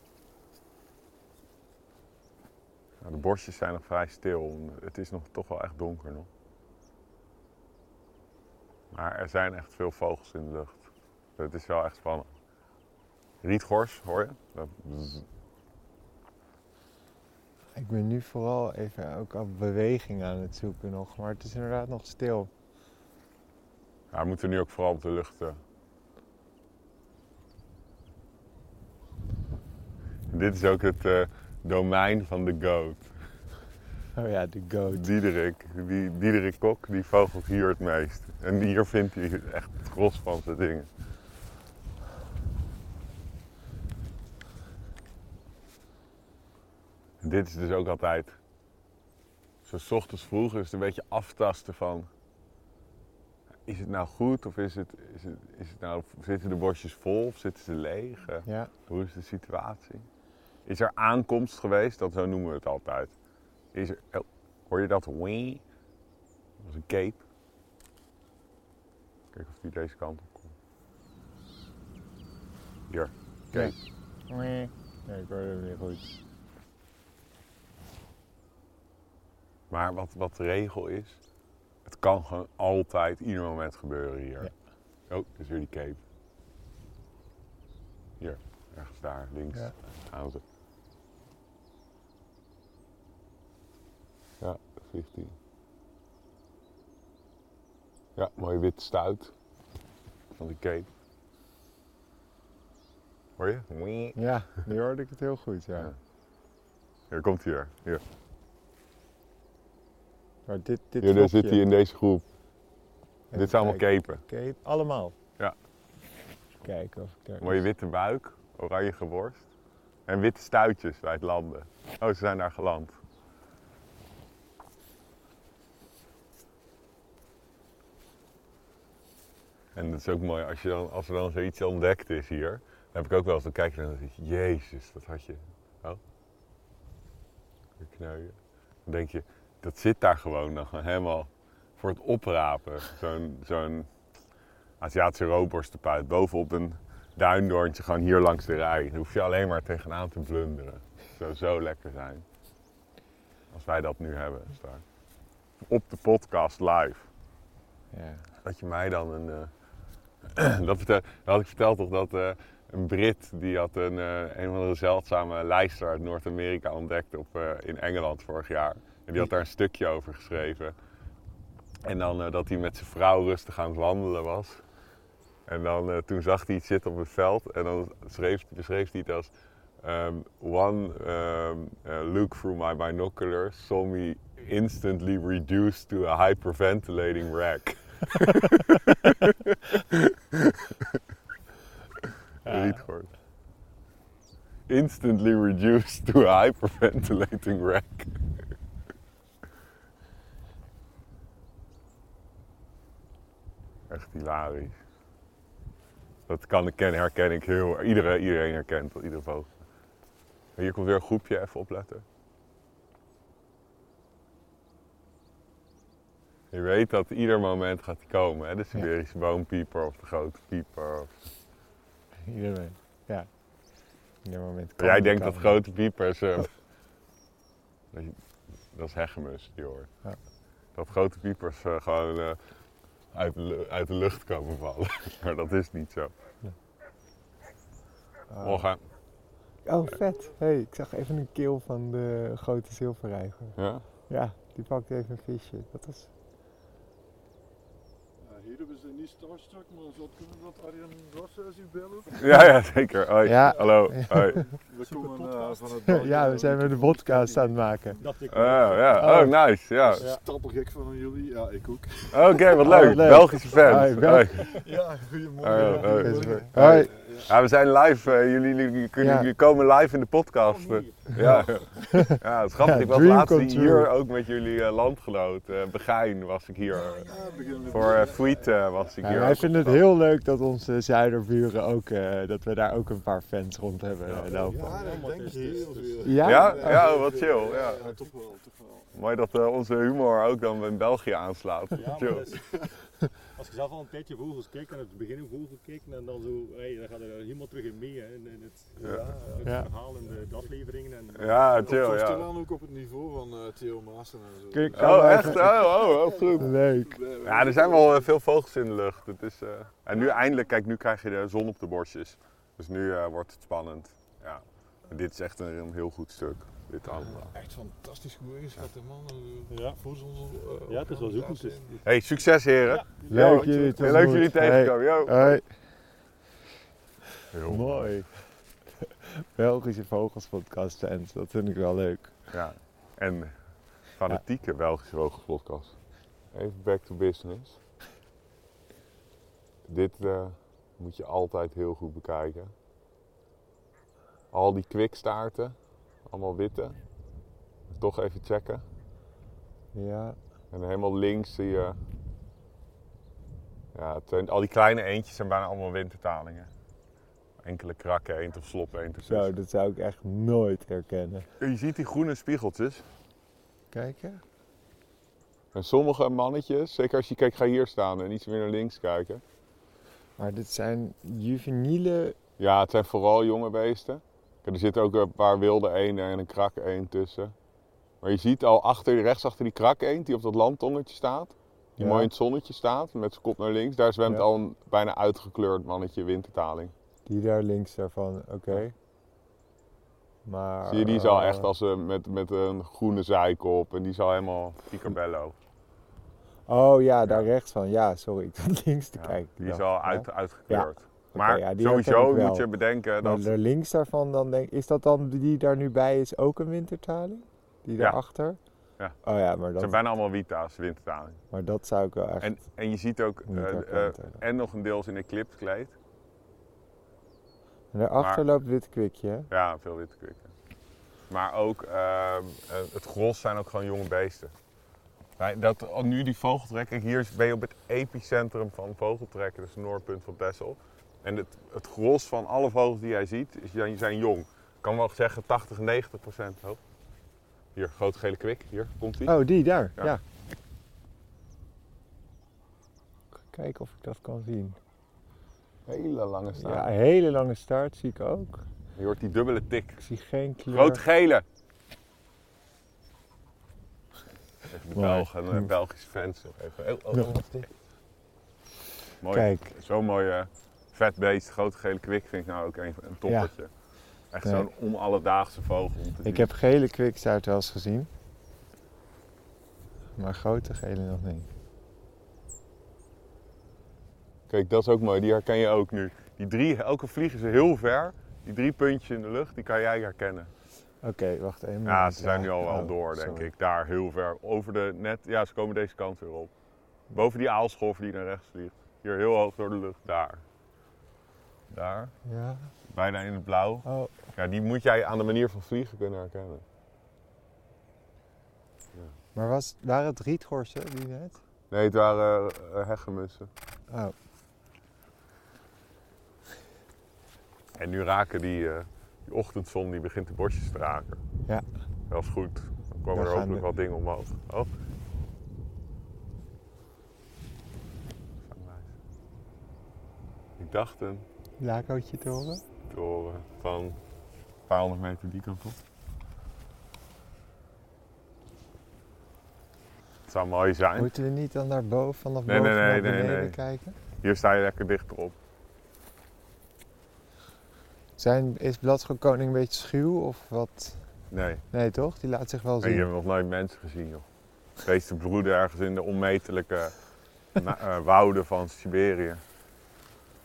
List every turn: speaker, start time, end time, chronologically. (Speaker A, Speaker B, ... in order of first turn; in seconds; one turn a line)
Speaker A: 3.0-6.3
Speaker A: 8.9-12.3
Speaker A: 13.4-15.2
Speaker B: 17.8-22.5
Speaker A: 24.1-25.6
Speaker A: 30.3-33.1
Speaker B: 34.1-35.1
Speaker A: 34.9-40.9
Speaker A: 47.2-48.4
Speaker A: 49.6-52.1
Speaker A: 53.7-60.0
Speaker B: 58.5-58.7
Speaker A: 60.6-63.1
Speaker A: 63.7-65.6
Speaker A: 66.6-67.2
Speaker A: 69.3-70.5
Speaker A: 72.9-73.8
Speaker B: 74.3-76.1
Speaker A: 79.7-81.2
Speaker A: 81.9-84.5
Speaker A: 85.1-86.0
Speaker A: 88.2-90.4
Speaker A: 94.4-95.3
Speaker A: 98.2-99.3
Speaker A: 100.3-100.9
Speaker A: 103.4-104.2
Speaker B: 104.2-105.9
Speaker A: 107.1-108.0
Speaker B: 110.5-111.6
Speaker A: 111.0-112.2
Speaker B: 113.3-115.1
Speaker A: 113.3-114.2
Speaker B: 116.6-117.6
Speaker A: 117.4-119.4
Speaker A: 120.1-123.0
Speaker A: 129.8-136.0
Speaker A: 137.8-143.9
Speaker A: 144.8-152.2
Speaker A: 153.5-154.8
Speaker A: 155.6-157.1
Speaker B: 157.9-158.2
Speaker A: 158.4-159.5
Speaker A: 160.3-170.8
Speaker A: 171.8-174.6
Speaker A: 175.5-190.9
Speaker A: 192.4-193.1
Speaker B: 192.4-192.8
Speaker A: 194.7-198.1
Speaker A: 203.9-204.8
Speaker A: 206.3-209.5
Speaker A: 210.6-212.0
Speaker A: 216.5-221.1
Speaker B: 222.2-223.3
Speaker B: 224.2-225.6
Speaker A: 224.8-226.5
Speaker A: 228.7-229.9
Speaker A: 230.8-232.4
Speaker A: 233.1-236.1
Speaker B: 238.3-238.6
Speaker A: 238.4-238.8
Speaker B: 239.7-243.6
Speaker A: 243.6-243.8
Speaker B: 244.1-246.1
Speaker C: 248.2-252.5
Speaker A: 252.2-254.4
Speaker B: 253.2-254.5
Speaker C: 254.5-258.1
Speaker D: 254.9-255.8
Speaker B: 255.8-258.0
Speaker D: 258.0-259.1
Speaker A: 258.3-260.1
Speaker B: 258.9-259.4
Speaker C: 259.9-263.0
Speaker D: 260.0-260.2
Speaker A: 262.1-264.6
Speaker B: 262.6-264.6
Speaker C: 264.2-267.3
Speaker A: 265.4-277.1
Speaker B: 265.6-266.9
Speaker B: 269.0-269.3
Speaker D: 270.4-271.6
Speaker B: 271.2-273.9
Speaker C: 276.7-278.6
Speaker D: 277.2-277.8
Speaker A: 277.7-279.8
Speaker B: 279.0-284.7
Speaker D: 284.1-286.6
Speaker C: 284.2-288.9
Speaker B: 286.0-287.0
Speaker A: 286.2-287.8
Speaker A: 288.9-292.2
Speaker D: 291.7-292.6
Speaker C: 292.3-292.7
Speaker D: 293.4-301.8
Speaker A: 298.8-299.1
Speaker B: 299.4-299.7
Speaker A: 301.2-302.3
Speaker C: 301.6-308.1
Speaker B: 304.5-305.7
Speaker A: 304.7-306.5
Speaker B: 306.4-307.0
Speaker A: 307.2-317.3
Speaker C: 317.1-321.8
Speaker D: 319.5-319.8
Speaker D: 320.7-321.8
Speaker A: 321.9-325.4
Speaker D: 322.7-323.1
Speaker C: 323.0-324.3
Speaker B: 323.1-325.4
Speaker A: 327.3-327.9
Speaker B: 327.4-328.1
Speaker B: 328.8-332.1
Speaker A: 332.3-333.3
Speaker A: 334.0-335.8
Speaker A: 336.3-337.6
Speaker A: 339.7-342.5
Speaker A: 344.3-345.6
Speaker A: 346.1-346.8
Speaker A: 347.7-348.6
Speaker B: 349.7-350.2
Speaker A: 350.5-351.8
Speaker A: 353.7-356.5
Speaker A: 357.4-359.3
Speaker B: 359.1-361.2
Speaker A: 361.4-362.9
Speaker B: 363.7-364.2
Speaker A: 365.5-369.2
Speaker B: 370.2-372.2
Speaker A: 372.4-377.3
Speaker A: 378.0-386.7
Speaker B: 381.8-382.1
Speaker B: 387.1-388.7
Speaker B: 390.2-391.5
Speaker A: 390.7-395.4
Speaker B: 396.5-402.5
Speaker A: 399.0-403.3
Speaker B: 403.0-408.4
Speaker B: 409.0-409.8
Speaker A: 409.6-411.2
Speaker B: 411.3-412.3
Speaker A: 412.2-415.7
Speaker B: 413.3-414.2
Speaker B: 417.7-419.3
Speaker A: 419.3-420.3
Speaker A: 421.1-424.3
Speaker A: 425.2-436.6
Speaker A: 437.6-439.1
Speaker B: 439.1-440.0
Speaker B: 443.3-444.6
Speaker A: 445.7-446.7
Speaker B: 446.4-448.4
Speaker A: 448.8-449.8
Speaker B: 449.8-450.8
Speaker A: 450.5-451.2
Speaker A: 454.5-457.5
Speaker B: 454.7-455.5
Speaker A: 459.0-463.5
Speaker B: 459.1-459.5
Speaker B: 463.1-463.3
Speaker A: 464.1-466.3
Speaker B: 466.0-467.9
Speaker B: 469.9-471.3
Speaker A: 474.3-480.3
Speaker B: 480.8-483.3
Speaker A: 481.6-486.3
Speaker A: 486.9-490.2
Speaker A: 491.5-491.9
Speaker B: 492.1-492.5
Speaker A: 492.7-493.6
Speaker B: 493.6-493.9
Speaker A: 494.1-496.4
Speaker B: 499.1-501.2
Speaker A: 501.5-503.3
Speaker B: 503.7-503.9
Speaker A: 507.6-511.0
Speaker A: 511.9-514.5
Speaker B: 512.9-513.5
Speaker A: 518.2-518.7
Speaker A: 520.4-521.1
Speaker B: 521.4-522.4
Speaker A: 522.7-523.8
Speaker A: 524.5-525.6
Speaker A: 530.1-530.9
Speaker B: 530.8-533.7
Speaker A: 532.3-533.4
Speaker A: 534.0-535.1
Speaker B: 538.0-540.8
Speaker A: 541.1-541.4
Speaker B: 541.5-542.9
Speaker A: 542.6-544.0
Speaker A: 544.6-546.7
Speaker A: 547.4-549.2